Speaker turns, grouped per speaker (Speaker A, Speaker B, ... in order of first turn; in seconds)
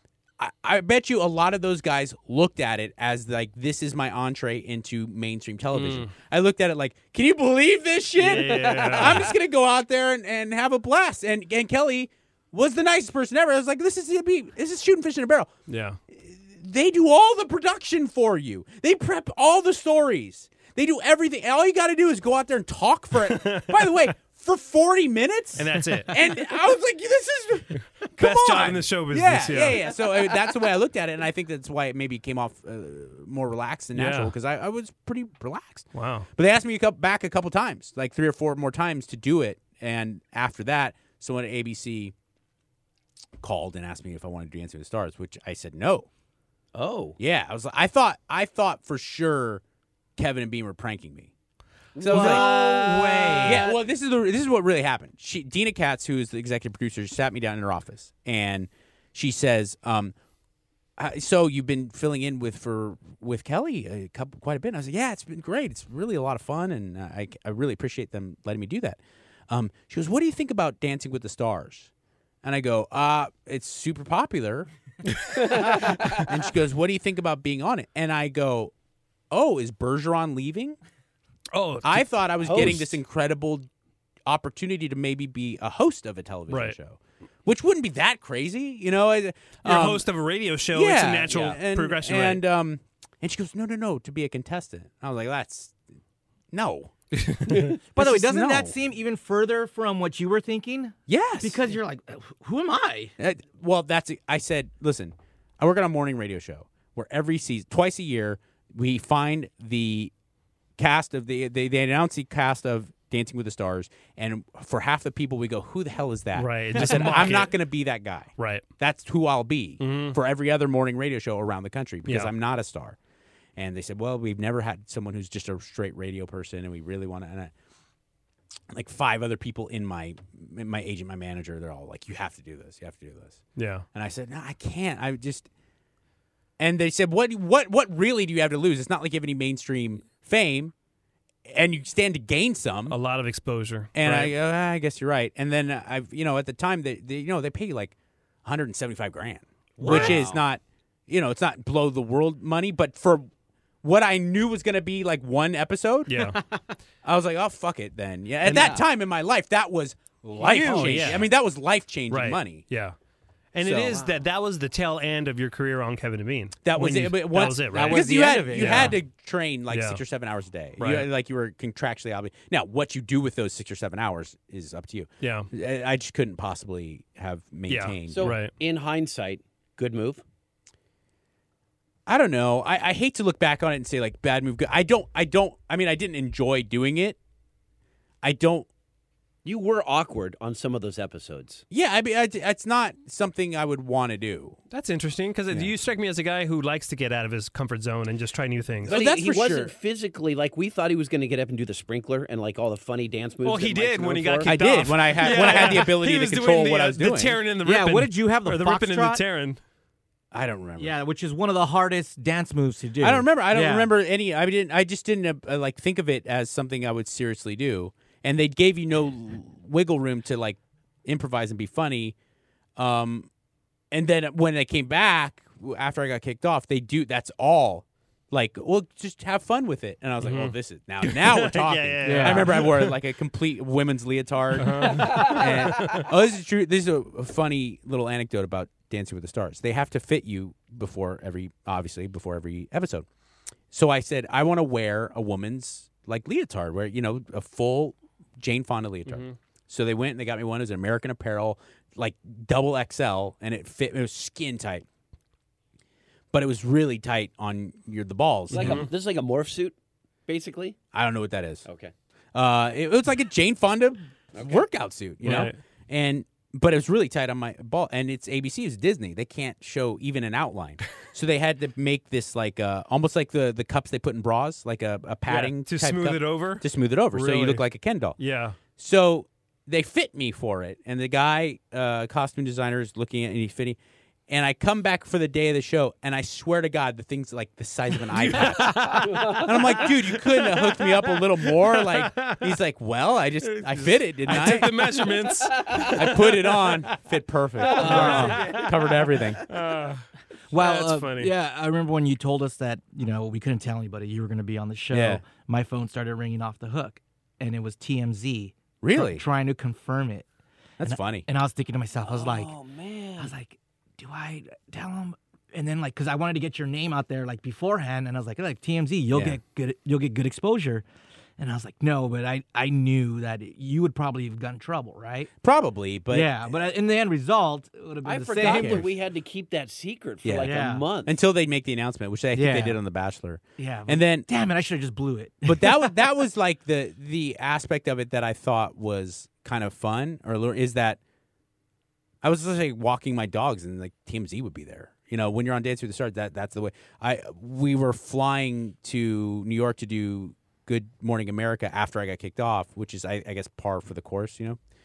Speaker A: 0.4-15.5, 16.2-42.1, 43.4-46.1, 47.2-49.6, 50.2-51.3, 52.0-60.1, 61.0-71.9, 72.4-78.7, 79.3-80.8, 81.8-83.7, 84.3-90.1, 90.7-95.8, 96.5-96.9, 97.5-98.8, 101.1-101.6, 103.2-110.1, 110.8-123.0, 123.6-127.5, 128.7-133.4, 133.9-135.5, 136.6-140.7, 141.5-143.0, 143.9-153.3, 153.8-156.3, 157.0-162.7, 163.6-164.1, 166.6-178.4, 182.1-187.2, 188.2-188.7, 191.7-194.6, 198.8-199.7, 204.4-207.5, 210.3-211.0, 213.0-222.2, 222.8-223.3, 223.9-243.1, 243.7-254.8, 256.3-258.9, 260.9-261.7, 262.3-278.2, 278.8-283.8, 284.3-295.1, 295.6-299.4, 304.9-305.2, 308.8-309.2, 310.8-311.3, 319.1-319.4, 325.4-326.4, 328.4-328.9, 330.2-334.3, 335.4-341.0, 342.2-354.6
Speaker B: 5.7-6.2, 8.2-9.3, 15.7-16.0, 23.2-24.1, 25.6-26.2, 28.2-29.9, 33.9-34.3, 35.9-36.3, 52.0-53.7, 81.5-83.0, 86.5-86.8, 89.6-92.4, 97.3-97.8, 116.3-117.5, 118.4-118.7, 119.8-120.2, 122.1-122.3, 133.6-133.8, 142.9-144.3, 149.8-150.2, 156.1-156.4, 160.4-161.3, 162.1-163.0, 163.5-166.7, 167.2-169.0, 169.7-170.0, 170.8-171.1, 175.2-175.5, 177.7-178.5, 194.7-198.9, 203.4-209.6, 230.2-233.0, 234.6-236.1, 249.1-249.4, 258.5-258.9, 265.2-265.6, 275.3-277.6, 278.2-278.6, 288.1-292.5, 293.4-297.0, 297.6-298.7, 299.5-301.3
Speaker C: 46.8-47.2, 52.0-53.8, 149.8-150.4, 178.1-180.2, 189.4-191.6, 198.9-204.5, 258.5-259.8, 260.3-260.8, 261.6-261.9, 264.4-264.6, 289.0-289.4, 297.7-298.6, 312.1-313.3, 328.0-331.1
Speaker D: 97.9-103.2, 117.0-117.2, 149.8-150.2, 158.4-158.9, 160.2-161.3, 166.8-169.0, 205.4-205.7, 207.6-209.2, 210.8-213.9, 232.0-232.7, 297.7-298.6, 300.5-310.3, 310.8-312.5, 313.2-320.8, 321.4-325.3, 326.1-328.9, 330.4-330.9, 332.3-332.8, 333.6-336.0